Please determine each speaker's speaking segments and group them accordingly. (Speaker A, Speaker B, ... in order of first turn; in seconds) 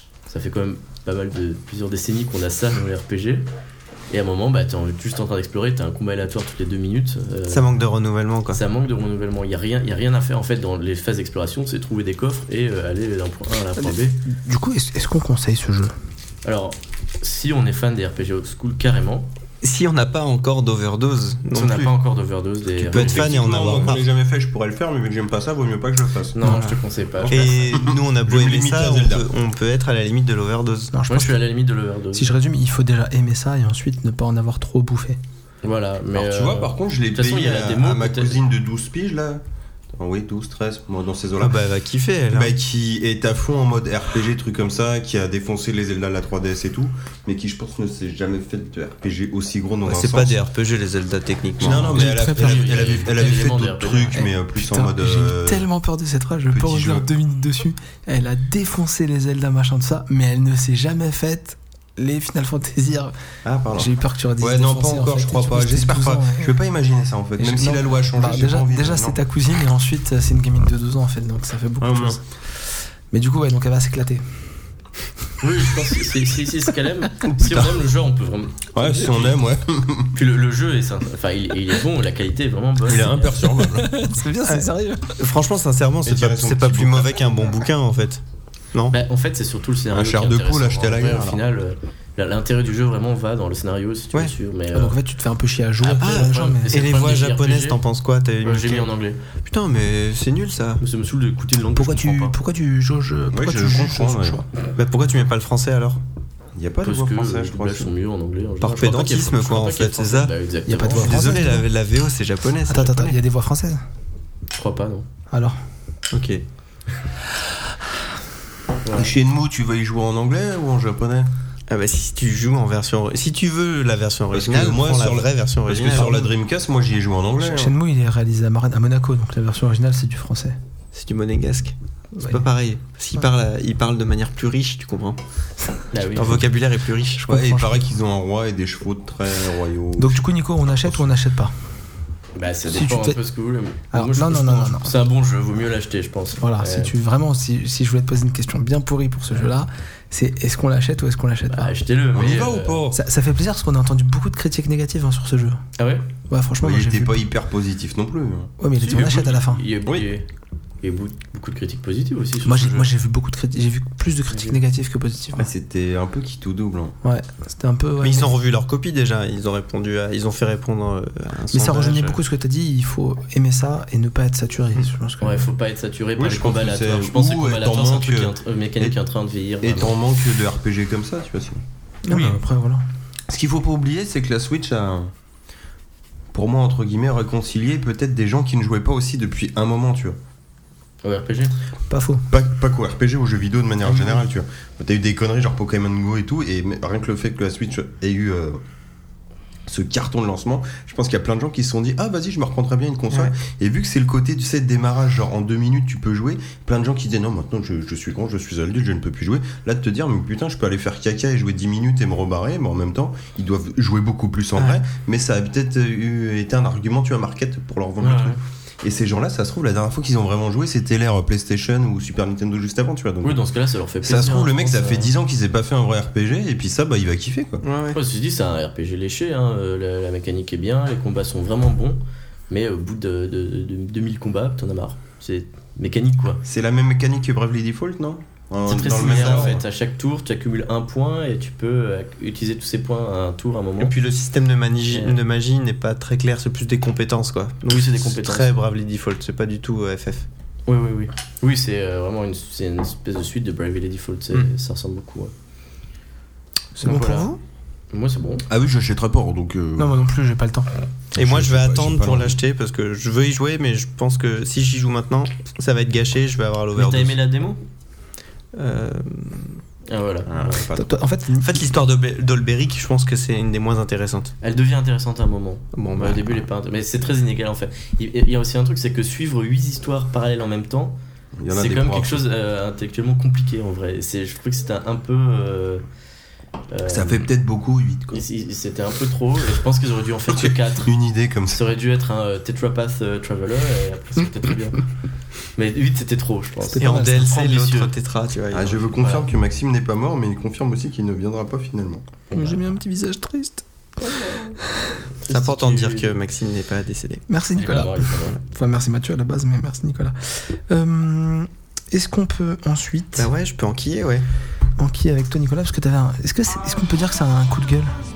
Speaker A: 0.3-3.5, 4.1-7.7, 8.5-14.2, 16.4-19.3, 21.5-24.0, 26.3-27.9, 31.1-32.4, 35.6-38.4, 52.0-54.2, 75.4-79.3, 80.1-83.6, 88.9-95.0, 95.8-97.8, 98.4-99.2, 100.8-102.3, 106.8-111.4, 114.5-115.1, 118.8-119.1, 135.9-136.4, 142.3-146.9, 151.5-152.9, 155.8-156.0, 158.8-160.3, 160.8-162.9, 164.3-164.6, 175.2-179.9, 191.0-191.6, 193.8-194.3, 218.0-218.4, 223.2-225.1, 227.9-236.4, 238.7-243.9, 244.9-245.2, 247.7-248.5, 250.7-255.3, 256.8-257.3, 257.9-258.4, 266.7-267.6, 269.9-270.7, 274.4-281.0, 281.5-285.8, 286.7-287.3, 288.1-290.9, 291.5-294.8, 295.5-297.9, 299.0-299.2, 302.3-302.7, 304.0-304.6, 305.2-306.1, 307.6-308.4
Speaker B: 7.5-8.6, 19.6-21.9, 22.8-24.1, 26.4-26.8, 27.3-31.0, 41.4-42.5, 49.9-52.0, 84.5-88.2, 96.0-98.9, 99.4-100.8, 104.8-106.0, 108.6-113.2, 116.1-116.4, 121.7-126.3, 130.9-135.2, 136.1-137.2, 168.0-172.2, 227.6-228.0, 243.8-250.2, 261.1-267.2, 268.5-269.6, 271.4-274.3, 275.7-276.4, 296.8-298.9, 305.3-307.2, 313.2-314.2
Speaker C: 14.3-15.9, 26.4-26.7, 30.9-31.4, 32.1-35.2, 51.7-52.6, 54.1-63.1, 63.8-66.5, 67.4-72.2, 73.1-74.2, 83.6-85.2, 94.7-96.8, 101.7-104.5, 110.7-111.7, 112.7-113.8, 115.3-115.6, 127.4-130.6, 132.2-132.4, 137.3-137.8, 140.0-141.5, 142.7-143.2, 143.9-144.9, 146.4-151.7, 152.9-155.6, 156.3-157.3, 158.6-159.6, 162.4-165.5, 167.0-168.3, 171.5-175.5, 182.0-182.8, 191.9-192.2, 256.8-257.4, 259.8-260.7, 270.8-271.6, 296.7-297.3, 302.3-303.6, 307.3-313.3, 314.8-317.9
Speaker D: 22.9-26.5, 27.1-29.3, 36.1-39.4, 39.9-41.6, 42.3-50.4, 51.6-55.7, 56.5-57.1, 63.4-69.2, 71.8-72.2, 77.3-77.7, 78.7-80.1, 82.8-83.9, 86.0-87.5, 89.9-91.4, 103.3-104.4, 106.5-107.9, 118.9-121.3, 124.3-127.7, 137.2-141.2, 152.1-153.0, 156.6-158.5, 165.3-166.9, 176.2-179.0, 179.6-182.4, 183.3-185.1, 186.3-190.2, 192.3-198.6, 199.7-223.4, 224.0-227.6, 236.4-239.6, 258.5-260.0, 261.1-262.4, 270.3-270.9, 281.4-282.2, 286.9-288.2, 290.8-291.6, 298.5-302.0